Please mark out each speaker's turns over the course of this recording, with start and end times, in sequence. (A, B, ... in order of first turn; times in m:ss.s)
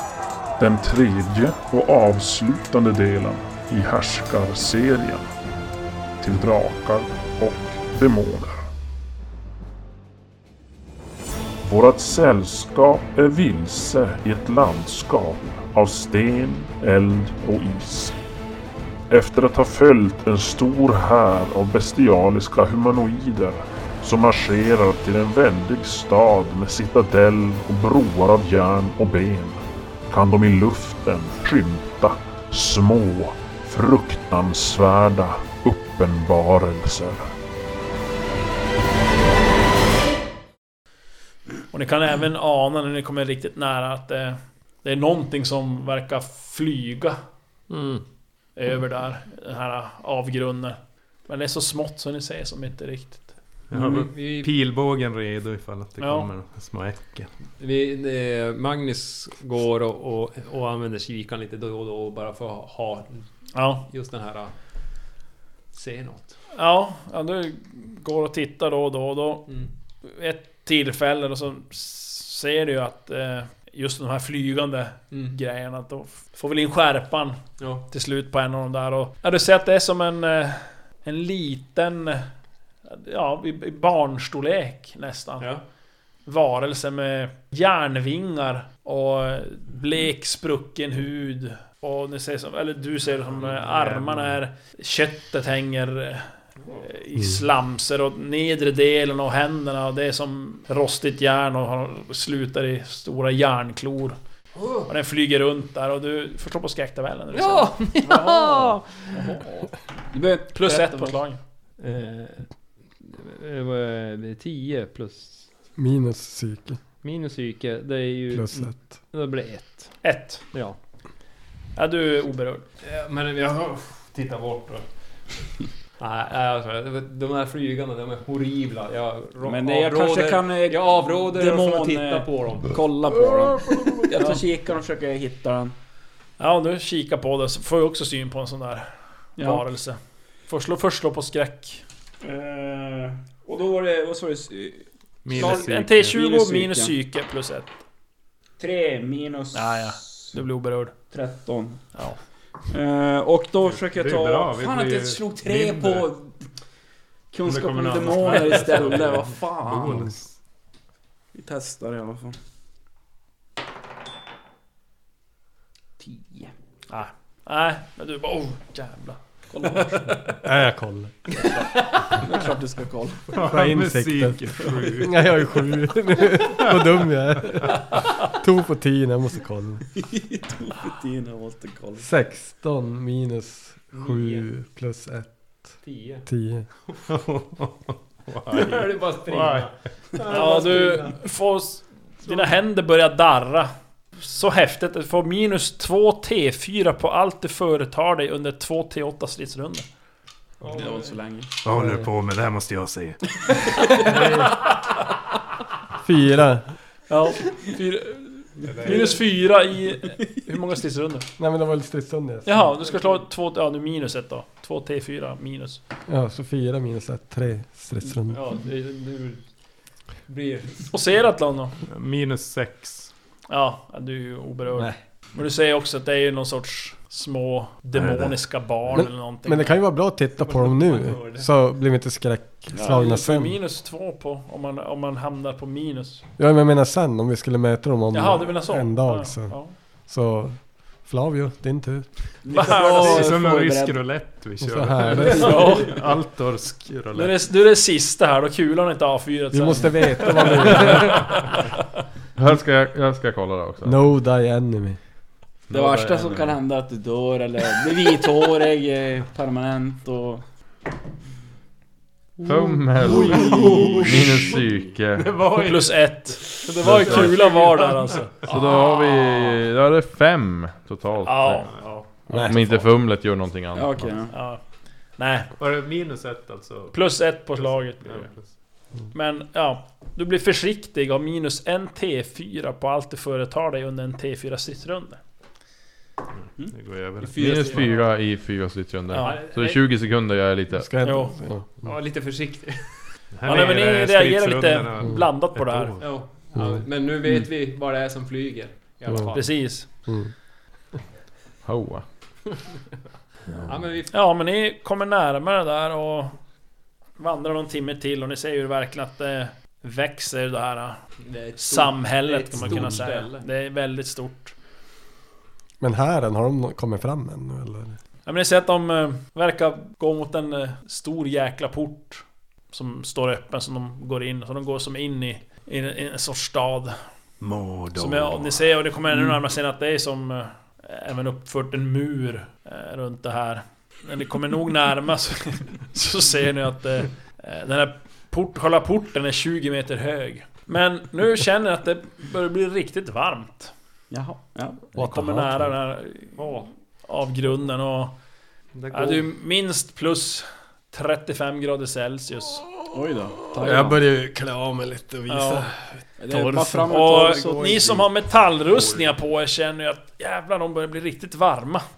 0:00.6-0:05.3 A
0:06.2-0:08.7 A
0:11.6-0:18.2 A
0:19.1-0:37.3 A
0:41.7-0:47.2 B
0:47.7-0:48.0 C
0:48.6-0:53.3 B
0:53.7-0:57.3 D
0:53.7-0:54.5 C
0:56.0-0:56.3 B
0:57.6-1:03.2 C
1:03.5-1:03.8 B
1:03.8-1:04.5 C
1:05.7-1:06.4 C
1:06.5-1:09.5 B
1:10.0-1:22.3 B
1:17.6-1:17.8 C
1:22.8-1:25.5 B
1:26.2-1:36.3 B
1:33.4-1:34.3 C
1:36.8-1:44.2 B
1:44.6-1:44.9 C
1:44.8-1:49.7 B
1:47.3-1:49.0 C
1:50.1-1:51.1 E
1:50.5-1:51.4 B
1:51.8-1:52.5 C
1:53.0-1:55.5 C
1:55.8-1:56.8 F
1:57.0-2:00.0 C
1:58.3-1:58.9 F
2:00.0-2:00.4 B
2:00.5-2:00.8 C
2:01.8-2:02.6 B
2:02.8-2:05.3 C
2:06.0-2:12.8 C
2:09.4-2:15.7 E
2:13.4-2:14.1 F
2:16.4-2:21.8 B
2:22.2-2:26.9 E
2:25.2-2:26.1 D
2:25.3-2:27.7 B
2:28.6-2:30.2 E
2:29.5-2:30.9 B
2:31.1-2:31.9 E
2:32.7-2:36.4 E
2:33.6-2:36.1 D
2:37.3-2:40.1 E
2:37.4-2:40.3 D
2:41.3-2:42.4 E
2:46.0-2:46.5 E
2:46.9-2:50.4 B
2:49.5-2:50.1 E
2:50.4-2:51.4 F
2:51.3-2:53.3 E
2:53.3-2:55.2 D
2:53.4-2:59.8 F
3:00.0-3:02.1 E
3:02.0-3:05.3 F
3:03.9-3:04.5 C
3:05.8-3:06.2 C
3:06.2-3:06.7 F
3:07.1-3:09.7 D
3:08.5-3:11.2 C
3:10.3-3:19.8 B
3:20.6-3:21.2 C
3:20.7-3:21.5 E
3:21.6-3:23.2 D
3:26.0-3:26.7 F
3:27.1-3:31.3 B
3:28.7-3:29.1 D
3:31.4-3:32.7 F
3:32.4-3:35.8 B
3:36.1-3:38.4 F
3:38.3-3:39.4 C
3:40.3-3:40.9 C
3:40.9-3:41.7 B
3:41.9-3:43.1 D
3:43.5-3:49.8 B
3:47.9-3:48.4 D
3:49.0-3:53.6 F
3:50.4-3:51.5 C
3:52.7-3:56.2 B
3:56.4-4:02.4 F
3:58.1-3:59.7 B
4:02.4-4:04.2 E
4:02.5-4:03.3 B
4:02.7-4:07.4 D
4:04.6-4:05.5 F
4:05.2-4:05.8 E
4:05.4-4:06.0 B
4:07.1-4:11.7 B
4:09.5-4:11.2 F
4:12.4-4:14.0 G
4:13.8-4:15.0 F
4:15.7-4:16.6 G
4:15.7-4:20.4 E
4:22.4-4:25.2 G
4:23.0-4:24.5 C
4:23.2-4:24.6 D
4:25.2-4:25.9 D
4:25.6-4:28.4 B
4:26.6-4:29.6 C
4:26.8-4:27.7 D
4:28.3-4:28.6 D
4:28.5-4:31.7 G
4:31.2-4:31.7 B
4:31.8-4:32.0 C
4:32.3-4:32.7 F
4:32.3-4:34.1 G
4:33.7-4:34.3 E
4:34.3-4:34.6 B
4:35.2-4:35.5 B
4:35.6-4:37.0 D
4:36.9-4:38.2 B
4:37.5-4:38.6 D
4:39.1-4:45.2 B
4:46.7-4:47.9 D
4:47.2-4:48.1 C
4:47.3-4:51.0 G
4:49.1-4:49.4 B
4:49.1-4:49.8 C
4:50.7-4:51.9 F
4:51.0-4:51.3 B
4:51.8-4:53.1 C
4:53.3-4:56.1 D
4:53.4-4:56.0 B
4:56.0-4:59.5 C
4:56.5-4:56.9 F
4:59.1-4:59.3 F
4:59.3-4:59.9 B
4:59.9-5:00.3 F
5:01.6-5:02.0 G
5:03.6-5:04.1 C
5:04.1-5:06.3 B
5:07.2-5:11.0 B
5:11.2-5:13.4 C
5:11.6-5:14.5 B
5:15.8-5:18.0 F
5:18.2-5:27.0 B
5:27.4-5:28.6 D
5:27.9-5:43.7 B
5:44.1-5:44.9 E
5:44.9-5:45.7 F
5:45.0-5:46.5 B
5:46.4-5:46.7 C
5:47.0-5:48.2 B
5:48.7-5:49.2 C
5:48.9-5:52.6 B
5:52.9-5:54.0 E
5:53.5-5:57.0 F
5:55.3-5:55.7 B
5:56.2-5:58.1 E
5:56.9-6:01.8 B